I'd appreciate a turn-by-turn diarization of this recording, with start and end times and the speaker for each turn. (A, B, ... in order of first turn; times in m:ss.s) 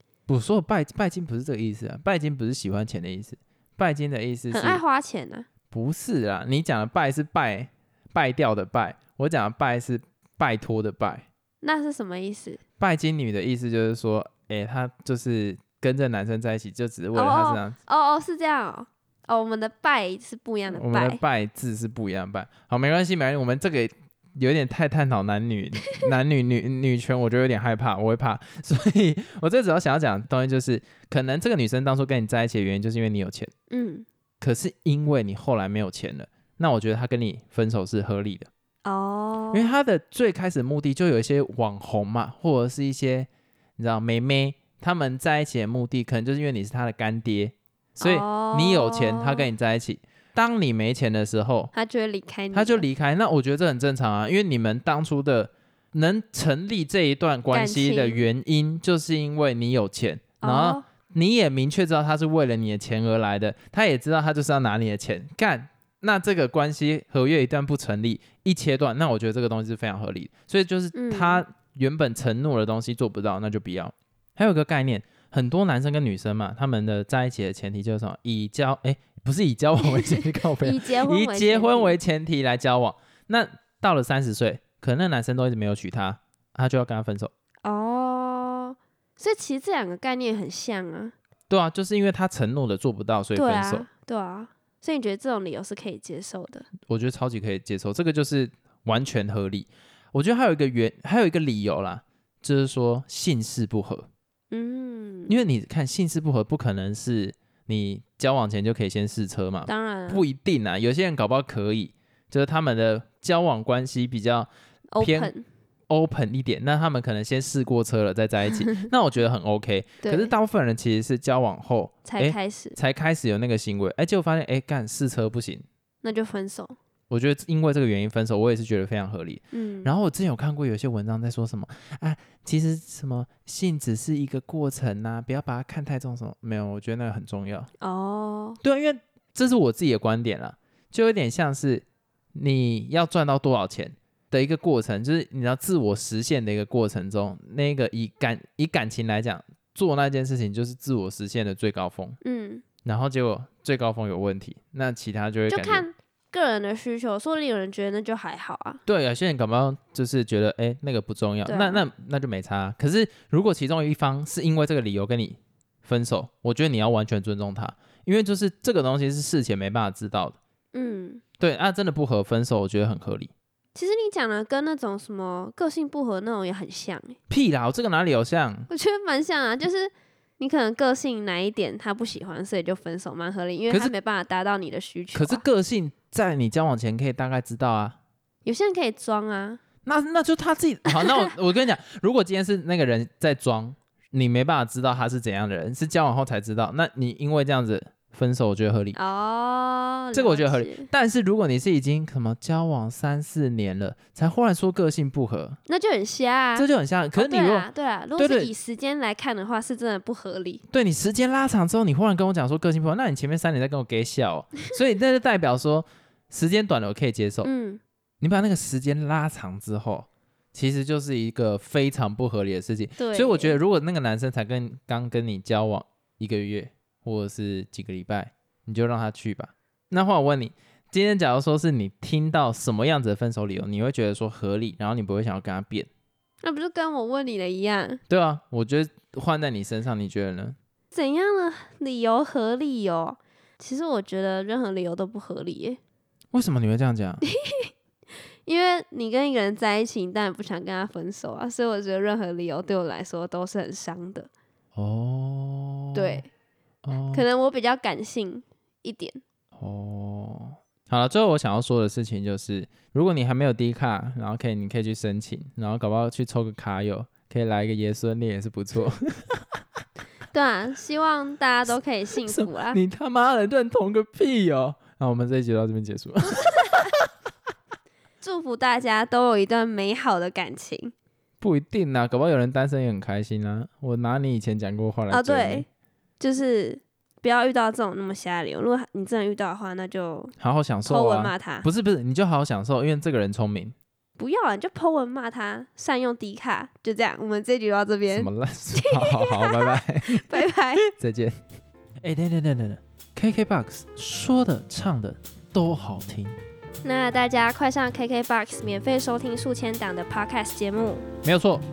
0:00.3-0:04.8 A
0:04.5-0:05.5 B
0:05.7-0:11.3 A
0:11.6-0:12.6 B
0:12.8-0:17.8 A
0:17.1-0:21.2 B
0:20.7-0:33.5 A
0:33.7-0:34.0 B
0:34.4-0:38.5 A
0:38.8-0:39.7 B
0:39.5-0:51.7 A
0:48.0-0:49.5 B
0:51.7-0:52.9 B
0:52.5-1:27.3 A
0:57.5-0:58.2 B
1:00.4-1:00.8 B
1:10.9-1:11.4 B
1:19.8-1:22.0 B
1:27.6-1:31.1 B
1:31.5-1:33.9 A
1:33.4-1:36.7 B
1:36.8-1:44.1 A
1:44.5-1:45.4 B
1:45.3-1:54.5 A
1:49.6-1:50.2 B
1:54.9-1:55.4 B
1:55.0-1:55.3 A
1:55.9-2:05.6 A
2:00.0-2:00.3 B
2:02.0-2:02.8 B
2:06.0-2:06.8 B
2:07.1-2:17.7 A
2:09.5-2:09.9 B
2:17.8-2:18.6 B
2:18.6-2:32.2 A
2:32.2-2:32.6 B
2:32.8-2:35.8 A
2:35.5-2:38.8 B
2:38.8-2:50.4 A
2:41.4-2:41.8 B
2:50.7-2:51.2 B
2:51.4-2:53.3 A
2:53.7-2:57.2 B
2:57.3-2:58.7 A
2:58.7-3:05.4 B
3:05.1-3:08.0 A
3:08.4-3:09.6 B
3:09.8-3:19.0 A
3:18.9-3:20.9 B
3:20.1-3:25.6 A
3:25.7-3:30.6 B
3:26.6-3:27.7 A
3:28.2-3:28.5 A
3:30.7-3:37.5 A
3:37.4-3:37.8 B
3:38.2-3:55.9 A
3:43.0-3:43.5 B
3:56.4-3:58.0 B
3:58.1-4:00.6 A
4:00.9-4:05.8 B
4:06.3-4:07.2 A
4:07.2-4:07.7 B
4:08.4-4:14.3 B
4:14.8-4:16.2 A
4:15.9-4:16.3 B
4:16.8-4:17.2 A
4:17.1-4:19.2 B
4:19.6-4:29.4 A
4:30.3-4:32.8 B
4:32.2-4:37.1 A
4:36.4-4:36.9 B
4:38.2-4:40.9 B
4:41.4-4:45.6 A
4:45.1-4:45.6 B
4:46.2-4:50.3 B
4:50.4-4:53.7 A
4:50.8-4:51.7 B
4:54.2-5:00.8 B
4:58.1-5:01.4 A
5:02.0-5:06.4 A
5:06.8-5:11.0 B
5:11.2-5:11.6 A